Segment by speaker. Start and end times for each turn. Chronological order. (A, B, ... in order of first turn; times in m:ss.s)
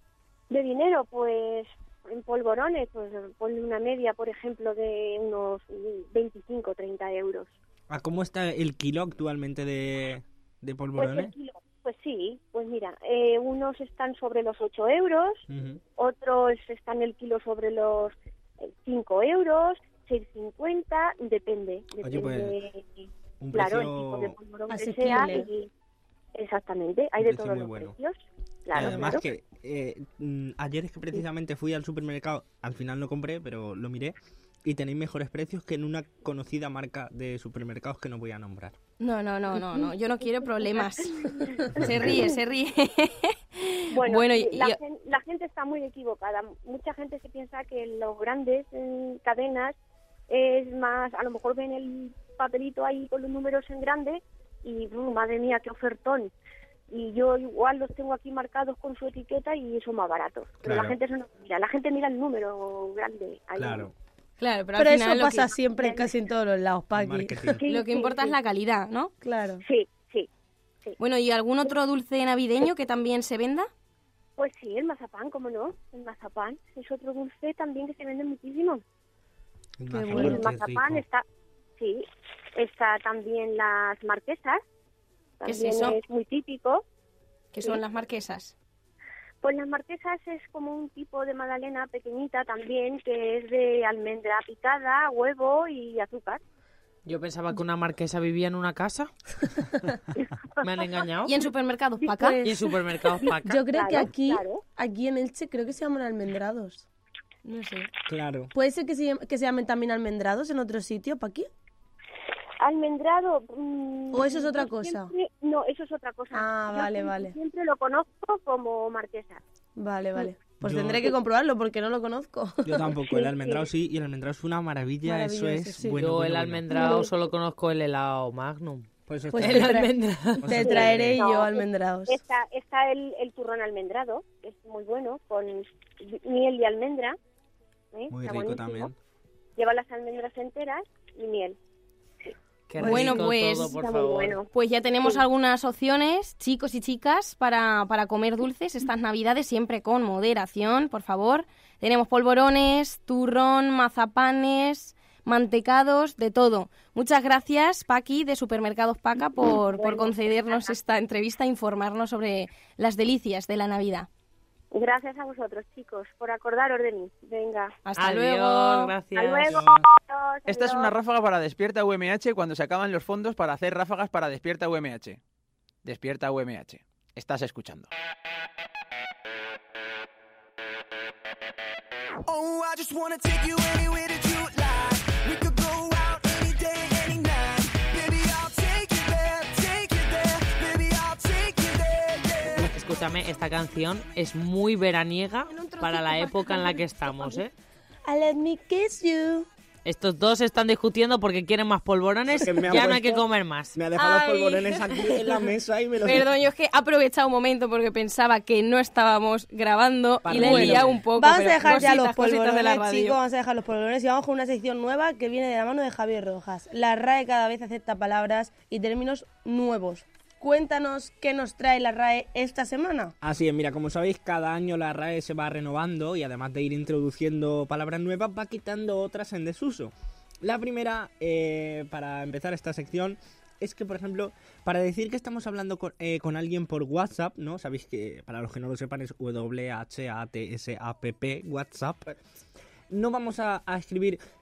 0:00.5-0:07.5 A
0:07.9-0:11.3 B
0:11.0-0:15.4 A
0:15.5-0:15.8 B
0:16.0-0:25.7 A
0:22.0-0:22.6 B
0:23.4-0:24.4 B
0:24.7-0:25.5 C
0:26.3-0:29.2 A
0:27.2-0:27.9 B
0:28.7-0:38.8 B
0:39.0-0:41.2 D
0:40.4-0:42.4 A
0:41.7-0:44.8 D
0:41.8-0:42.2 B
0:43.9-0:49.7 A
0:50.3-0:56.3 A
0:56.9-1:03.9 A
1:00.6-1:01.0 B
1:03.6-1:03.9 B
1:04.4-1:05.5 D
1:04.8-1:07.5 C
1:05.8-1:06.1 A
1:06.9-1:07.6 B
1:07.5-1:08.3 A
1:07.7-1:09.1 D
1:09.2-1:09.6 C
1:09.6-1:10.3 A
1:11.0-1:13.7 D
1:14.4-1:18.8 A
1:19.8-1:21.0 B
1:19.9-1:20.5 C
1:20.1-1:21.2 A
1:21.8-1:24.6 A
1:25.4-1:26.8 A
1:25.4-1:26.0 D
1:27.5-1:28.5 D
1:29.4-1:36.4 A
1:37.0-1:39.1 E
1:40.6-1:41.3 E
1:41.2-1:42.4 D
1:42.2-1:42.6 C
1:42.4-1:43.6 E
1:43.2-1:44.6 A
1:43.4-1:46.8 C
1:47.4-1:47.9 D
1:48.1-1:48.5 B
1:48.5-1:51.5 C
1:52.6-1:59.4 A
1:54.1-1:55.1 C
1:56.3-1:57.4 C
1:59.8-2:03.6 C
2:00.6-2:01.1 B
2:02.6-2:06.7 B
2:05.0-2:06.0 C
2:06.0-2:10.6 E
2:06.7-2:07.1 C
2:09.1-2:09.8 B
2:09.3-2:09.9 C
2:10.4-2:11.2 B
2:10.4-2:12.2 C
2:10.6-2:17.2 A
2:17.9-2:18.9 A
2:18.1-2:18.9 B
2:19.6-2:21.6 A
2:22.7-2:24.4 E
2:22.8-2:23.2 C
2:22.8-2:23.7 D
2:23.6-2:24.5 A
2:24.5-2:44.1 D
2:39.7-2:40.7 A
2:44.7-2:47.7 A
2:47.8-2:48.9 D
2:48.0-2:49.6 E
2:49.1-2:50.9 A
2:49.5-2:49.9 B
2:50.5-2:55.2 F
2:55.8-2:57.9 F
3:02.2-3:12.7 G
3:12.5-3:17.5 E
3:15.5-3:16.8 D
3:18.0-3:19.5 C
3:19.8-3:23.8 E
3:22.3-3:26.3 B
3:24.0-3:25.2 D
3:26.0-3:33.2 D
3:30.2-3:31.0 B
3:30.3-3:43.1 C
3:43.2-4:02.1 B
4:02.9-4:04.2 B